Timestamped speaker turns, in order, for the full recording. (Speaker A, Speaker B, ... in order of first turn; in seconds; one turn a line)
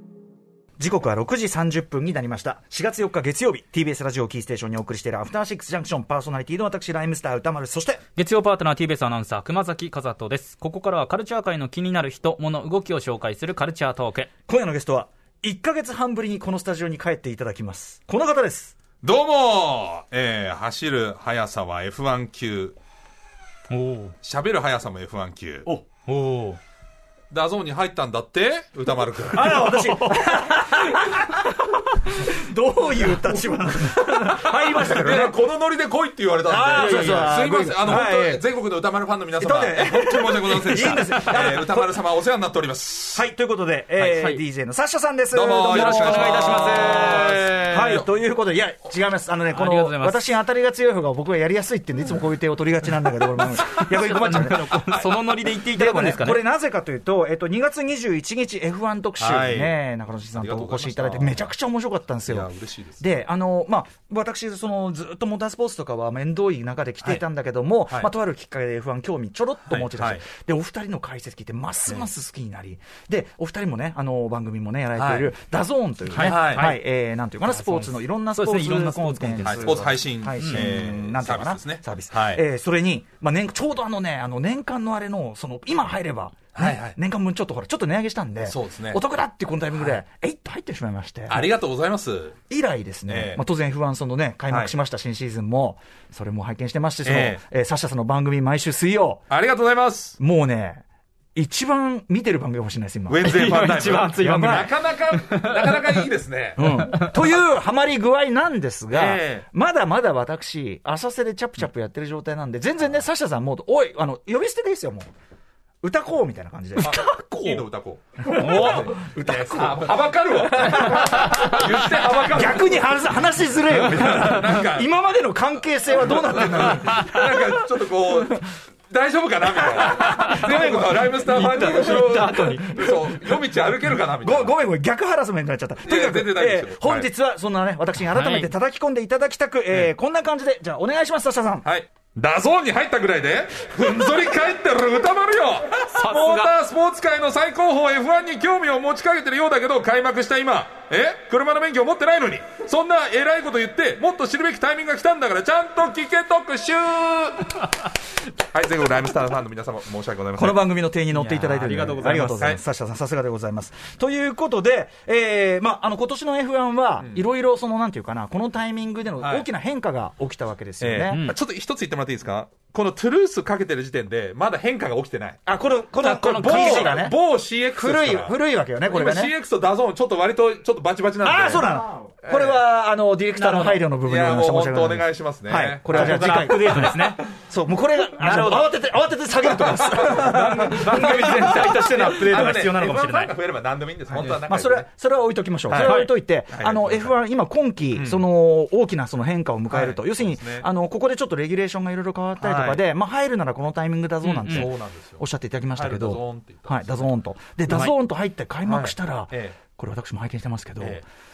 Speaker A: 0.8-8.0
Speaker B: 8.2-14.3
Speaker A: 14.5-18.8
Speaker C: 19.0-22.8
Speaker B: 23.7-24.1
Speaker C: 24.2-25.7
Speaker B: 25.7-26.6
Speaker C: 27.3-30.0
Speaker A: 29.3-35.3
Speaker B: 29.5-30.4
Speaker C: 33.8-43.2
Speaker A: 36.5-38.4
Speaker B: 36.7-37.5
Speaker A: 39.4-42.0
Speaker B: 40.8-41.2
Speaker A: 43.1-55.0
Speaker B: 44.0-44.4
Speaker C: 45.3-48.1
Speaker B: 45.7-47.5
Speaker B: 49.5-50.2
Speaker B: 53.4-56.4
Speaker A: 55.6-62.5
Speaker C: 59.2-59.8
Speaker C: 60.3-61.5
Speaker C: 62.3-63.0
Speaker A: 63.0-91.5
Speaker C: 69.7-70.2
Speaker C: 75.0-75.3
Speaker B: 76.1-76.8
Speaker C: 76.2-76.7
Speaker B: 77.5-80.6
Speaker C: 79.4-82.4
Speaker C: 86.5-87.0
Speaker C: 88.4-89.0
Speaker C: 91.3-92.4
Speaker A: 92.5-99.2
Speaker C: 93.1-93.4
Speaker C: 94.5-94.7
Speaker C: 97.0-97.4
Speaker C: 99.3-100.2
Speaker A: 100.2-100.8
Speaker A: 101.3-104.7
Speaker C: 103.1-107.0
Speaker B: 103.2-106.0
Speaker A: 106.6-115.1
Speaker C: 108.9-109.5
Speaker A: 115.8-117.5
Speaker C: 116.8-122.8
Speaker A: 118.2-121.6
Speaker B: 118.3-118.9
Speaker B: 121.2-121.7
Speaker A: 122.2-127.7
Speaker C: 123.7-124.9
Speaker C: 126.0-134.5
Speaker A: 129.7-141.7
Speaker B: 130.0-132.8
Speaker C: 135.8-137.1
Speaker B: 138.1-138.5
Speaker C: 141.6-160.6
Speaker B: 145.9-146.5
Speaker A: 160.3-171.2
Speaker B: 161.1-162.5
Speaker C: 167.0-167.2
Speaker C: 169.2-169.5
Speaker C: 170.8-175.4
Speaker B: 171.1-171.3
Speaker A: 175.4-177.1
Speaker C: 176.0-182.6
Speaker B: 176.0-177.0
Speaker A: 177.7-179.3
Speaker A: 181.2-192.6
Speaker B: 183.3-183.8
Speaker C: 184.0-186.8
Speaker B: 185.9-187.2
Speaker B: 188.1-188.7
Speaker C: 189.5-194.9
Speaker B: 190.2-193.3
Speaker A: 194.3-211.0
Speaker C: 195.7-197.1
Speaker B: 195.7-196.1
Speaker C: 197.9-198.2
Speaker C: 199.7-200.7
Speaker C: 202.4-202.8
Speaker B: 204.2-204.7
Speaker C: 204.5-205.2
Speaker C: 205.7-207.1
Speaker C: 208.7-209.6
Speaker C: 210.8-211.0